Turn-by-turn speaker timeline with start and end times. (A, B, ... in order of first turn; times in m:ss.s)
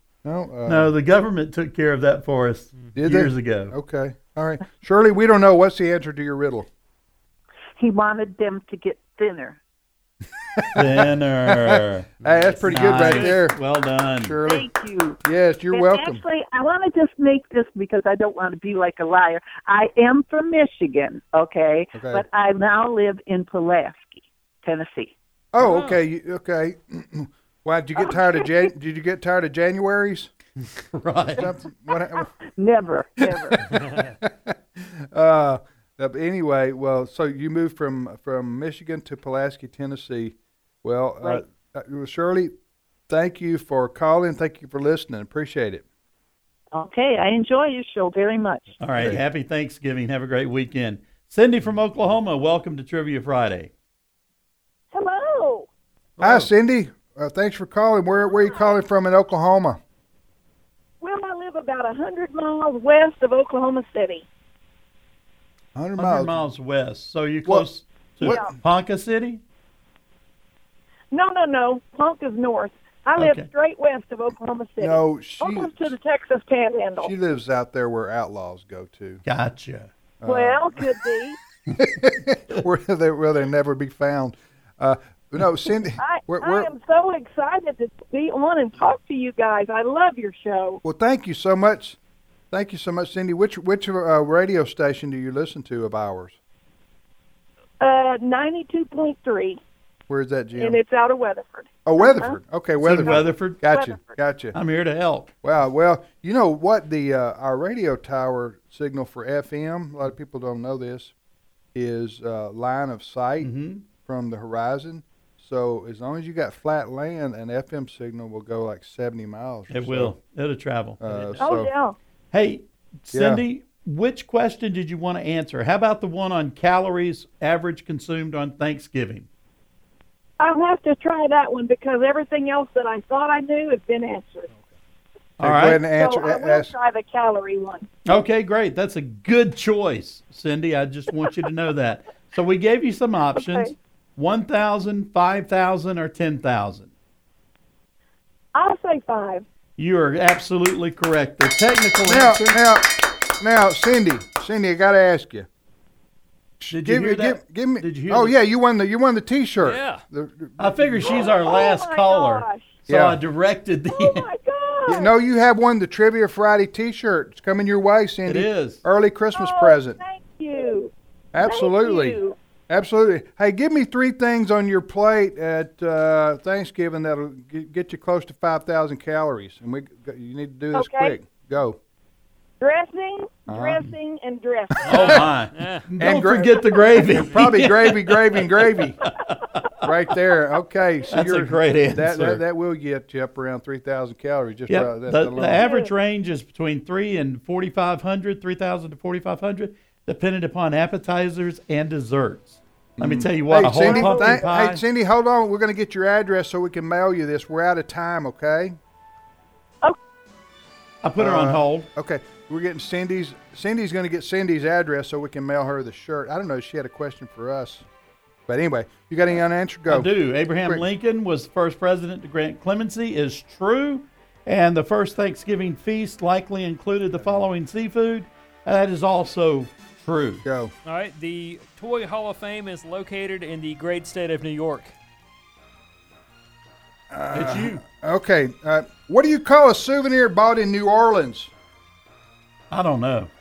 0:00.2-0:00.9 A
0:00.6-0:03.7 B
0:02.9-0:06.7 A
0:07.8-0:09.6 C
0:10.4-0:13.6 A
0:10.7-0:14.4 B
0:12.2-0:13.4 D
0:14.2-0:14.7 A
0:14.4-0:15.2 C
0:15.2-0:16.2 A
0:15.7-0:25.2 C
0:21.9-0:22.2 A
0:25.5-0:30.3 A
0:25.6-0:26.0 D
0:28.1-0:28.4 C
0:30.9-0:31.5 B
0:31.4-0:32.3 A
0:32.0-0:33.7 C
0:33.5-0:42.5 A
0:33.6-0:34.1 D
0:43.1-0:45.8 A
0:46.7-0:48.8 C
0:48.8-0:53.7 B
0:49.0-0:49.2 A
0:54.9-0:55.7 E
0:56.2-0:56.5 D
0:56.2-0:59.8 A
1:01.0-1:04.3 E
1:05.7-1:06.4 A
1:06.0-1:09.4 B
1:08.2-1:08.5 E
1:11.1-1:17.1 E
1:13.2-1:13.5 B
1:14.8-1:16.0 A
1:17.0-1:19.2 A
1:19.2-1:19.9 B
1:20.2-1:20.9 A
1:20.2-1:21.4 E
1:21.7-1:26.7 A
1:26.0-1:30.8 E
1:30.8-1:32.0 A
1:32.5-1:36.4 A
1:37.8-1:39.6 E
1:40.1-1:40.8 A
1:40.6-1:42.4 E
1:41.8-1:44.6 A
1:42.8-1:43.6 B
1:42.9-1:44.2 E
1:44.5-1:45.3 B
1:45.4-1:51.1 A
1:51.7-2:00.2 A
1:53.4-1:53.8 B
1:59.7-2:01.5 B
2:01.0-2:01.7 A
2:01.4-2:02.0 E
2:02.3-2:09.3 B
2:03.1-2:03.4 A
2:10.4-2:14.5 E
2:15.4-2:15.8 B
2:15.4-2:16.7 A
2:15.9-2:17.9 E
2:18.0-2:26.9 B
2:23.3-2:23.7 E
2:28.5-2:29.4 E
2:29.8-2:32.6 B
2:32.1-2:35.5 A
2:36.6-2:41.6 A
2:36.7-2:38.3 B
2:39.6-2:40.0 D
2:40.6-2:44.3 B
2:41.0-2:42.8 E
2:42.9-2:43.2 A
2:43.9-2:45.1 E
2:44.9-2:50.0 A
2:48.2-2:48.8 B
2:49.3-2:52.4 E
2:51.3-2:52.2 A
2:52.7-3:01.8 A
3:00.7-3:01.2 E
3:02.6-3:05.2 E
3:03.5-3:03.8 A
3:04.8-3:05.9 D
3:04.8-3:08.5 B
3:04.9-3:05.2 A
3:06.0-3:09.0 A
3:09.1-3:09.6 B
3:09.8-3:15.7 A
3:11.1-3:12.4 B
3:14.7-3:24.8 B
3:15.6-3:15.9 E
3:23.0-3:28.8 A
3:23.8-3:24.4 E
3:31.0-3:31.9 B
3:31.2-3:37.9 A
3:38.5-3:40.8 A
3:39.9-3:50.4 B
3:47.2-3:47.4 A
3:50.4-3:50.7 A
3:50.8-3:54.9 D
3:57.1-4:01.5 A
3:57.3-3:57.8 B
3:57.4-3:57.6 D
4:02.7-4:03.3 B